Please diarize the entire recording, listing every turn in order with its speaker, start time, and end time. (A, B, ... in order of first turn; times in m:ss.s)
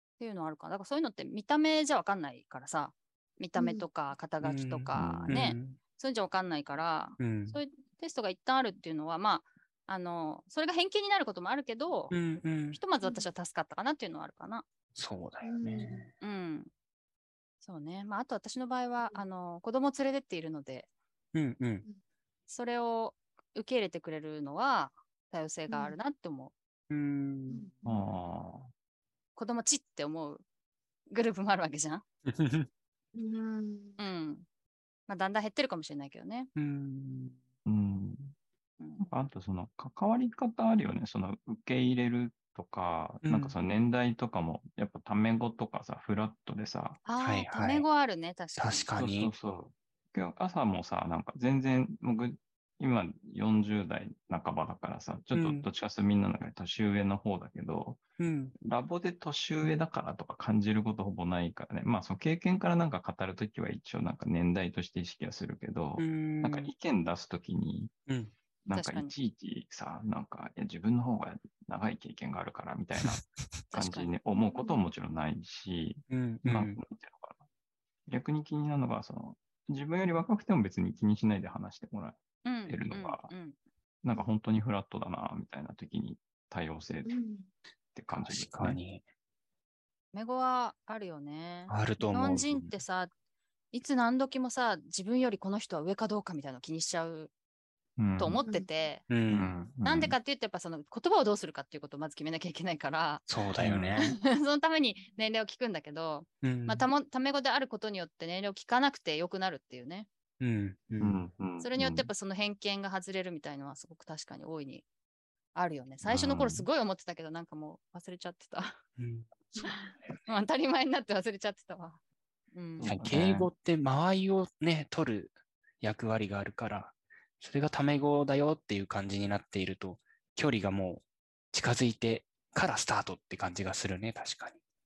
0:00.2-0:12.1 A
0:03.6-0:03.8 B
0:04.4-0:05.8 C
0:04.9-0:05.5 D
0:07.2-0:07.6 C
0:12.1-0:12.8 C
0:12.7-0:14.6 A
0:14.9-0:16.1 C
0:15.4-0:16.0 B
0:16.2-0:16.7 A
0:17.6-0:20.9 A
0:21.3-0:21.8 C
0:22.5-0:26.5 A
0:25.7-0:26.0 B
0:26.9-0:27.6 C
0:27.5-0:28.0 B
0:27.8-0:28.7 D
0:29.3-0:30.4 A
0:31.1-0:32.0 A
0:32.3-0:32.7 C
0:33.2-0:34.0 B
0:34.0-0:34.4 A
0:35.1-0:36.5 A
0:36.6-0:37.4 C
0:37.6-0:38.3 D
0:38.8-0:39.0 A
0:39.0-0:47.0 D
0:43.2-0:43.6 C
0:47.0-0:48.9 A
0:47.2-0:47.8 C
0:48.6-0:49.3 C
0:49.0-0:58.0 D
0:55.3-0:55.6 C
0:58.2-0:58.5 C
0:58.6-1:07.9 D
1:06.0-1:06.7 C
1:08.1-1:08.3 C
1:08.6-1:13.2 D
1:08.7-1:09.1 A
1:13.7-1:14.1 A
1:13.7-1:17.4 D
1:14.3-1:14.9 B
1:16.1-1:16.8 C
1:18.1-1:23.3 D
1:22.4-1:23.6 A
1:24.0-1:27.2 D
1:27.0-1:27.5 B
1:27.9-1:28.8 D
1:28.1-1:29.0 C
1:30.1-1:33.1 A
1:31.7-1:32.7 C
1:33.7-1:37.3 A
1:38.0-1:38.4 D
1:38.2-1:39.0 A
1:39.1-1:39.5 C
1:39.3-1:40.1 D
1:39.8-1:43.3 A
1:43.3-1:44.2 C
1:43.6-1:43.9 D
1:44.0-1:50.1 A
1:46.4-1:46.9 C
1:50.4-1:51.2 C
1:51.0-1:52.1 D
1:51.6-1:54.8 A
1:55.5-1:58.8 A
1:56.0-1:56.7 D
1:59.0-1:59.9 C
2:00.2-2:02.0 A
2:02.5-2:02.9 A
2:02.8-2:03.5 D
2:02.8-2:14.6 C